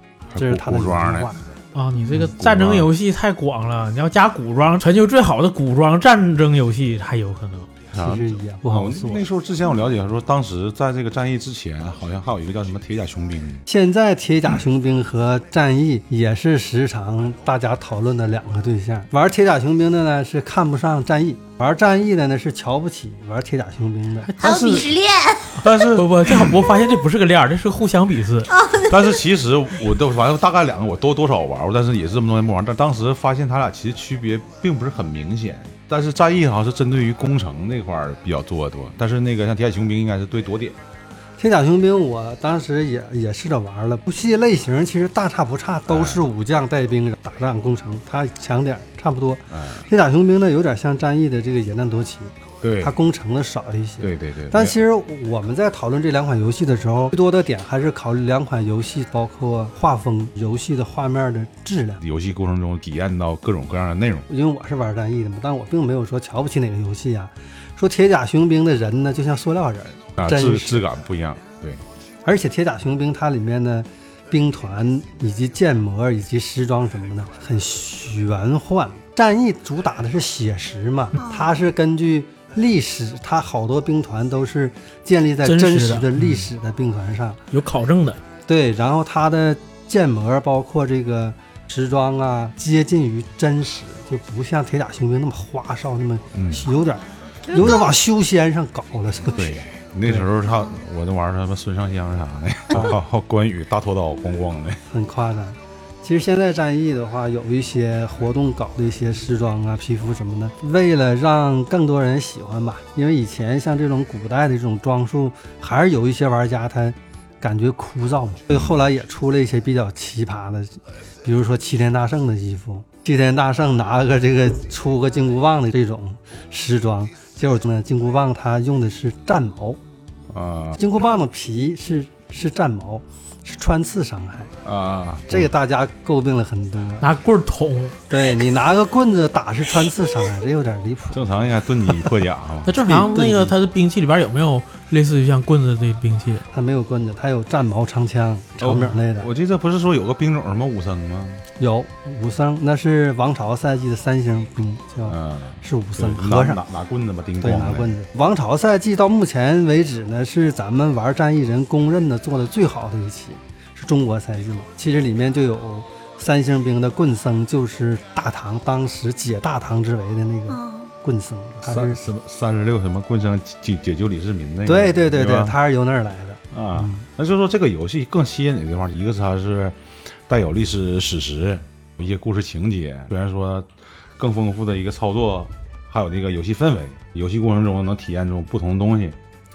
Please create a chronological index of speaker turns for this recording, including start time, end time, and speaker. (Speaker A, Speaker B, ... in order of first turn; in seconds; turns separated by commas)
Speaker A: 0.3-1.3, Speaker B: 0.4-1.5, Speaker C: 1.7-7.7, Speaker A: 2.1-2.9, Speaker B: 7.9-9.2, Speaker A: 7.9-13.6, Speaker B: 13.7-24.3, Speaker C: 24.2-24.9, Speaker D: 24.4-25.6, Speaker A: 25.6-26.6, Speaker C: 25.6-28.5, Speaker D: 28.5-29.2, Speaker A: 28.8-40.8, Speaker B: 41.4-62.0, Speaker A: 45.9-46.2, Speaker A: 49.5-49.9, Speaker A: 52.6-52.9, Speaker A: 54.0-54.8, Speaker A: 62.0-64.3, Speaker B: 64.3-70.8, Speaker A: 70.2-71.8, Speaker B: 72.2-87.4, Speaker D: 81.2-81.6, Speaker C: 85.4-86.5, Speaker C: 87.5-88.2, Speaker B: 88.5-100.3, Speaker A: 96.3-96.7, Speaker D: 96.7-97.9, Speaker A: 99.3-104.8, Speaker B: 104.9-129.8, Speaker A: 130.3-130.8, Speaker B: 130.8-134.5, Speaker A: 134.6-135.5, Speaker B: 135.3-137.1, Speaker C: 137.0-138.0, Speaker B: 138.1-141.2, Speaker A: 141.1-142.8, Speaker C: 142.7-146.4, Speaker B: 142.8-143.5, Speaker B: 146.5-149.3, Speaker A: 148.6-151.4, Speaker B: 151.6-156.6, Speaker A: 155.1-157.9, Speaker B: 157.4-172.0, Speaker D: 170.5-170.9, Speaker A: 171.6-175.6, Speaker B: 174.7-177.0, Speaker A: 176.5-179.8, Speaker A: 180.3-189.2